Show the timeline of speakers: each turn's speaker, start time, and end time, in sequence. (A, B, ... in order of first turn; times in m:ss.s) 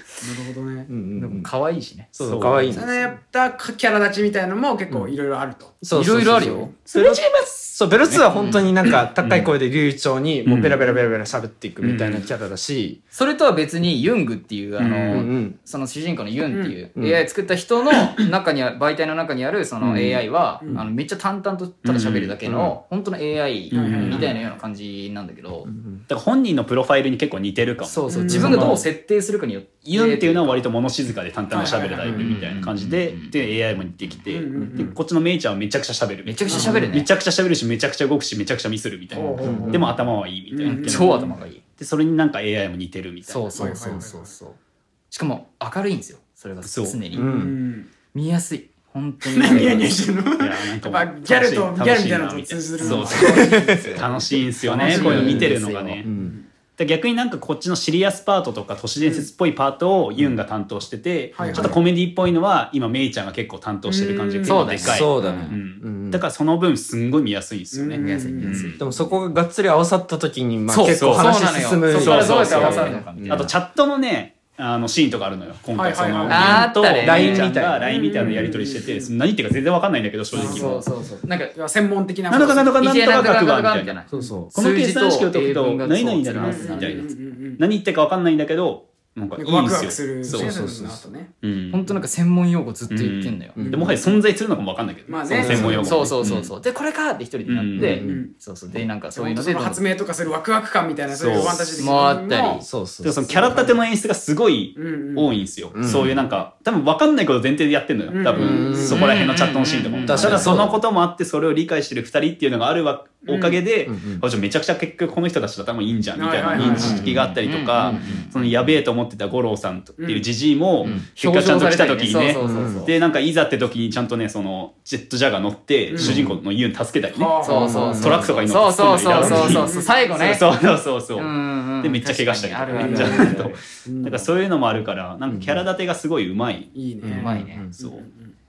0:00.2-0:00.9 A
0:00.9-0:01.5 B
0:01.1-0:02.1 C
0:02.1-0:02.9 B
0:02.2-0:02.7 D
0:02.7-0:05.8 A
0:05.8-0:13.0 B
0:05.9-0:06.8 C
0:06.3-0:06.6 A
0:06.9-0:08.2 D
0:08.3-0:08.7 C
0:08.9-0:09.5 D
0:10.4-0:10.8 D
0:11.8-0:12.3 D
0:13.1-0:25.7 C
0:14.8-0:15.3 D
0:15.1-0:15.6 B
0:16.5-0:16.8 A
0:17.0-0:17.2 B
0:19.8-0:20.8 B
0:21.8-0:22.4 D
0:22.4-0:22.8 B
0:23.7-0:24.3 D
0:23.7-0:24.4 A
0:25.7-0:26.0 B
0:26.1-0:28.8 D
0:27.8-0:30.6 C
0:28.1-0:28.8 A
0:28.3-0:28.7 B
0:29.9-0:43.6 D
0:31.5-0:32.2 A
0:32.0-0:32.4 B
0:32.2-0:33.5 C
0:34.3-0:34.9 A
0:34.6-0:34.9 B
0:36.2-0:37.1 C
0:36.5-0:36.8 A
0:39.1-0:39.9 A
0:39.1-0:39.8 C
0:39.4-0:39.9 B
0:40.5-0:41.3 A
0:40.6-0:41.6 C
0:43.2-0:44.6 C
0:43.6-0:44.3 A
0:43.7-0:44.0 B
0:45.1-0:47.3 C
0:46.6-0:47.0 D
0:47.1-0:47.9 A
0:47.1-0:47.6 B
0:48.1-0:49.9 C
0:49.3-0:54.1 A
0:49.5-0:49.9 D
0:50.4-0:56.1 D
0:52.8-0:54.0 C
0:53.1-0:54.0 B
0:54.6-0:56.0 C
0:54.7-0:55.5 A
0:55.0-0:55.5 B
0:56.0-0:56.4 B
0:56.2-0:56.5 A
0:56.8-1:08.8 D
0:59.0-0:59.3 A
1:01.4-1:01.8 A
1:01.5-1:01.8 B
1:03.9-1:04.8 A
1:04.4-1:05.5 C
1:04.8-1:06.2 B
1:07.7-1:08.9 A
1:08.0-1:08.8 C
1:08.8-1:13.5 B
1:10.7-1:13.5 C
1:10.9-1:11.3 D
1:11.9-1:20.8 D
1:15.8-1:16.7 A
1:16.3-1:17.8 C
1:17.0-1:18.5 B
1:17.8-1:19.1 A
1:20.3-1:21.6 C
1:20.3-1:20.8 A
1:21.6-1:22.8 A
1:22.3-1:24.0 D
1:22.8-1:27.0 C
1:24.1-1:24.5 B
1:24.5-1:30.5 D
1:26.4-1:27.6 A
1:29.4-1:31.3 A
1:30.3-1:31.0 B
1:31.4-1:31.8 D
1:31.7-1:33.6 C
1:32.9-1:36.5 D
1:33.6-1:34.0 B
1:33.7-1:34.2 A
1:35.1-1:36.0 A
1:35.3-1:35.9 B
1:35.5-1:39.9 C
1:37.5-1:38.0 D
1:37.8-1:38.2 B
1:37.8-1:38.3 A
1:39.1-1:42.6 A
1:41.1-1:41.7 D
1:41.8-1:42.6 C
1:42.6-1:43.3 B
1:43.0-2:07.3 D
1:43.2-1:43.8 A
1:44.8-1:45.3 A
1:45.7-1:46.2 B
1:48.1-1:49.0 A
1:48.4-1:49.0 B
1:48.9-1:50.6 C
1:50.0-1:50.8 B
1:50.2-1:50.6 A
1:53.3-1:53.6 A
1:53.9-1:54.2 B
1:56.1-1:57.0 A
1:56.5-1:57.2 B
1:56.6-1:58.4 C
2:00.0-2:00.3 A
2:00.8-2:02.9 C
2:02.4-2:02.9 B
2:05.9-2:06.2 A
2:06.0-2:06.4 B
2:07.1-2:08.2 A
2:07.4-2:10.5 C
2:07.5-2:08.3 B
2:08.0-2:16.7 D
2:09.2-2:10.2 A
2:11.1-2:13.6 C
2:12.8-2:14.3 A
2:12.8-2:13.4 B
2:15.3-2:15.6 B
2:16.7-2:18.3 A
2:17.0-2:17.7 B
2:17.2-2:17.7 C
2:17.8-2:18.0 D